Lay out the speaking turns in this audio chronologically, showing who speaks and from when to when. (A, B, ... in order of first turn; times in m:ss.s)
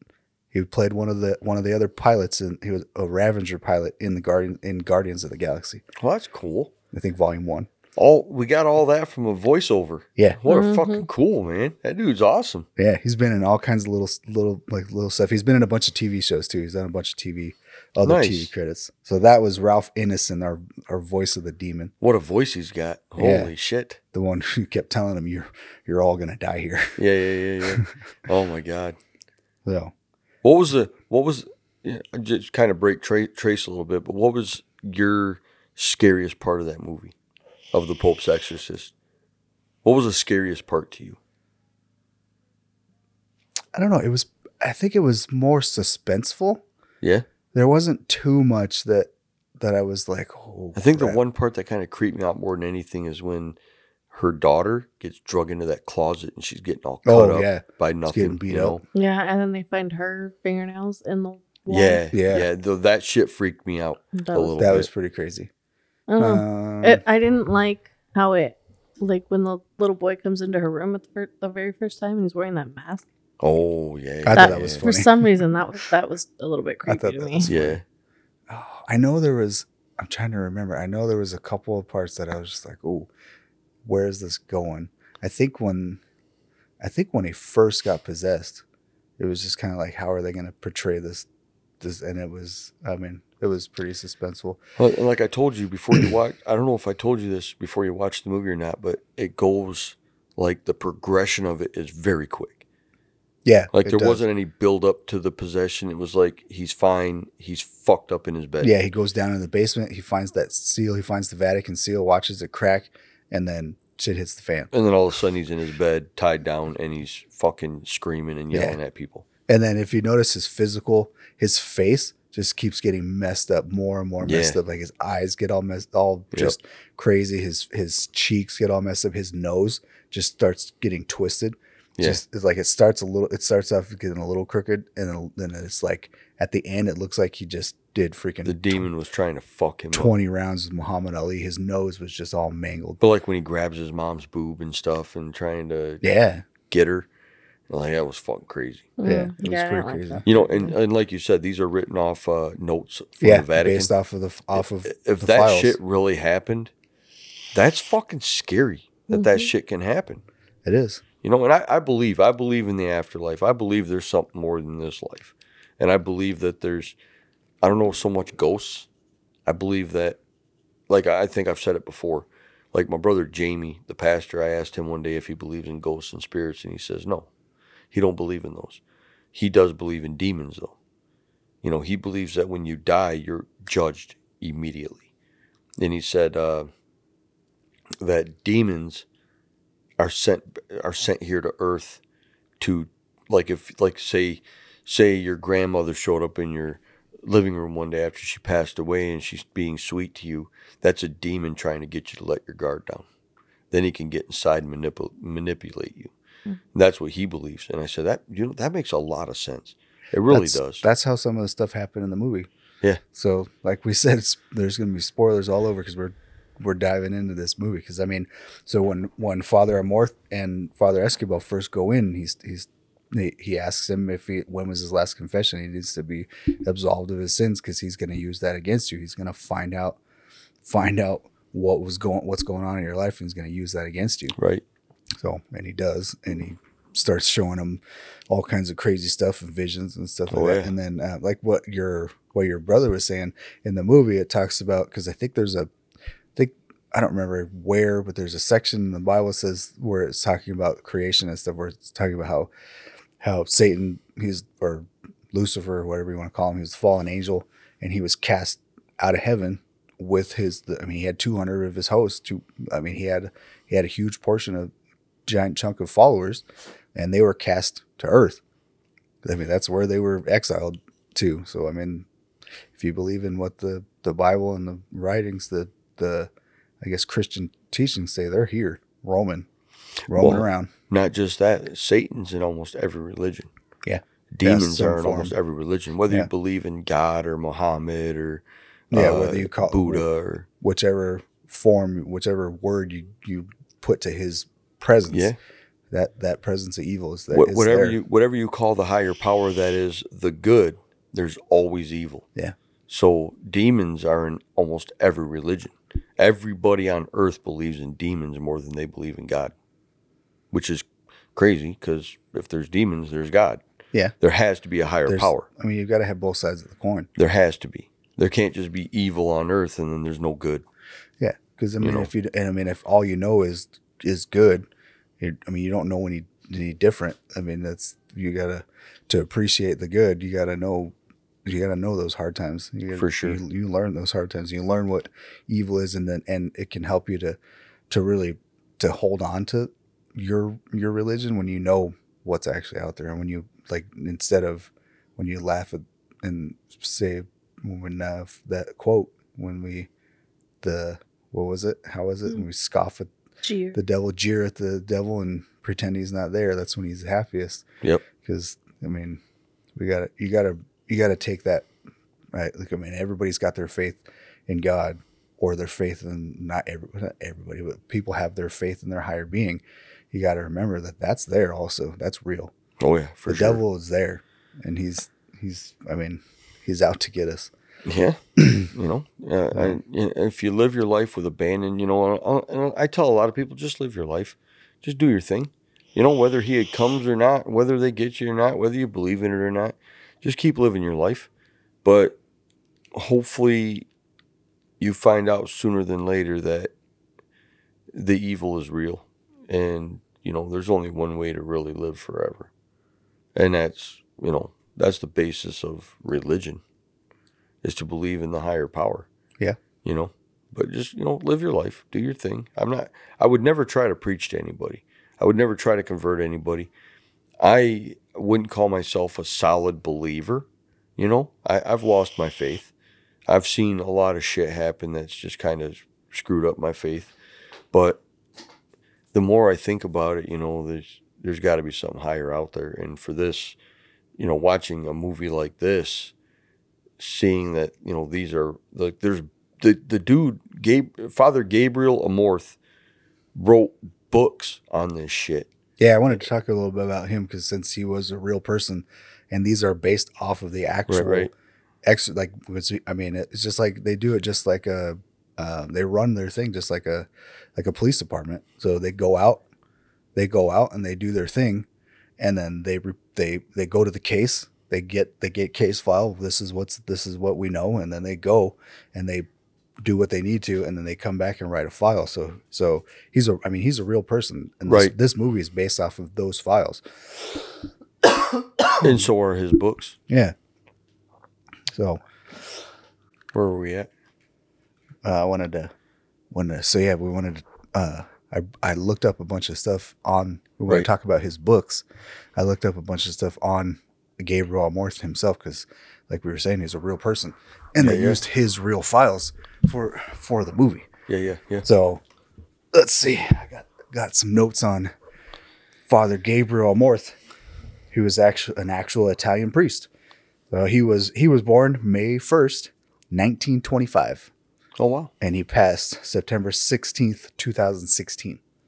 0:00.5-0:05.8 A
0:06.0-0:06.7 B
0:06.9-0:07.7 A
0:08.0-0:12.7 B
0:10.5-0:11.1 C
0:12.8-0:21.9 A
0:18.0-0:18.5 B
0:22.0-0:24.0 B
0:23.2-0:23.5 A
0:24.1-0:27.0 A
0:27.0-0:29.0 B
0:29.6-0:29.9 A
0:30.4-0:37.1 B
0:37.7-0:38.9 B
0:39.8-0:41.2 B
0:43.7-0:46.6 A
0:47.5-0:51.2 A
0:50.7-0:53.6 B
0:54.1-0:58.8 B
0:57.0-0:58.8 A
0:58.9-1:02.1 C
1:01.7-1:04.9 B
1:02.1-1:02.5 A
1:04.1-1:04.6 C
1:04.6-1:05.5 A
1:06.1-1:13.0 C
1:06.2-1:07.0 A
1:13.4-1:14.8 B
1:14.2-1:15.1 A
1:14.3-1:17.5 C
1:16.9-1:17.8 A
1:17.4-1:17.8 B
1:18.5-1:23.1 A
1:23.8-1:26.0 A
1:26.8-1:28.6 A
1:29.2-1:31.3 A
1:31.8-1:34.6 A
1:34.8-1:42.6 B
1:43.4-1:44.2 A
1:43.7-1:48.7 B
1:48.6-1:54.7 A
1:54.7-1:59.2 B
1:58.5-1:58.8 A
1:59.5-2:18.9 A
2:04.2-2:04.6 B
2:18.4-2:20.1 B
2:19.9-2:23.0 A
2:23.0-2:26.0 B
2:26.0-2:26.4 A
2:26.7-2:27.1 B
2:27.7-2:28.9 B
2:29.0-2:30.7 C
2:29.0-2:30.2 A
2:30.2-2:33.9 B
2:33.2-2:35.8 A
2:34.6-2:36.7 B
2:37.5-2:40.2 B
2:39.1-2:39.5 C
2:40.6-2:41.0 A
2:41.2-2:47.0 B
2:47.6-2:48.9 B
2:49.4-2:50.2 B
2:50.9-2:57.3 B
2:57.9-2:58.8 B
2:59.3-3:00.8 B
3:01.6-3:05.0 B
3:05.8-3:06.7 B
3:08.0-3:09.0 B
3:10.0-3:12.0 B
3:12.6-3:23.0 B
3:23.7-3:26.1 B
3:26.7-3:30.8 B
3:30.3-3:32.5 A
3:33.1-3:50.0 A
3:50.6-3:54.4 A
3:54.4-3:54.6 B
3:55.2-4:05.7 A
4:00.3-4:00.7 B
4:06.4-4:12.5 A
4:13.2-4:24.7 A
4:25.2-4:26.4 A
4:27.0-4:28.4 A
4:29.2-4:32.0 A
4:32.7-4:36.3 A
4:36.8-4:39.5 A
4:40.1-4:40.7 A
4:40.1-4:43.5 B
4:43.8-4:45.3 A
4:44.3-4:50.5 B
4:48.9-4:50.0 A
4:50.6-4:55.3 A
4:55.1-4:55.4 B
4:55.9-4:58.0 A
4:57.3-5:02.2 B
5:02.9-5:09.5 B
5:10.5-5:13.6 B
5:14.2-5:15.5 B
5:15.1-5:17.1 A
5:17.2-5:20.6 B
5:21.2-5:24.7 A
5:21.8-5:22.1 B
5:25.2-5:37.4 A
5:32.9-5:33.4 B
5:37.9-5:49.9 A
5:50.6-5:53.1 A
5:53.4-5:53.8 C
5:53.7-5:57.6 A
5:58.2-5:59.2 A
5:59.8-6:01.7 A
6:02.3-6:12.5 A
6:12.8-6:13.6 B
6:13.3-6:17.5 A
6:17.8-6:31.3 B
6:18.4-6:18.7 A
6:31.8-6:32.2 B
6:32.9-6:33.9 B
6:34.8-6:36.7 B
6:37.9-6:42.5 B
6:43.3-6:46.6 B
6:47.6-6:49.1 B
6:49.8-6:56.7 B
6:57.4-7:00.4 B
7:01.0-7:02.7 B
7:03.3-7:07.1 B
7:07.7-7:08.0 B
7:09.1-7:13.6 B
7:14.2-7:16.1 B
7:17.0-7:22.6 B
7:23.3-7:25.5 B
7:25.8-7:31.3 A
7:30.9-7:31.3 B
7:31.8-7:39.4 A
7:40.1-7:41.7 A
7:42.2-7:49.3 A
7:49.8-7:56.8 A
7:54.7-7:54.9 B
7:58.8-8:00.0 B
8:00.1-8:00.3 A
8:01.7-8:02.0 A
8:03.3-8:03.9 B
8:05.0-8:05.7 A
8:06.3-8:11.8 A
8:12.4-8:20.9 A
8:17.8-8:18.2 B
8:21.1-8:21.7 B
8:21.6-8:22.0 A
8:22.7-8:24.9 A
8:25.9-8:27.2 A
8:27.9-8:29.9 A
8:30.5-8:34.3 A
8:34.8-8:35.1 B
8:35.2-8:38.4 A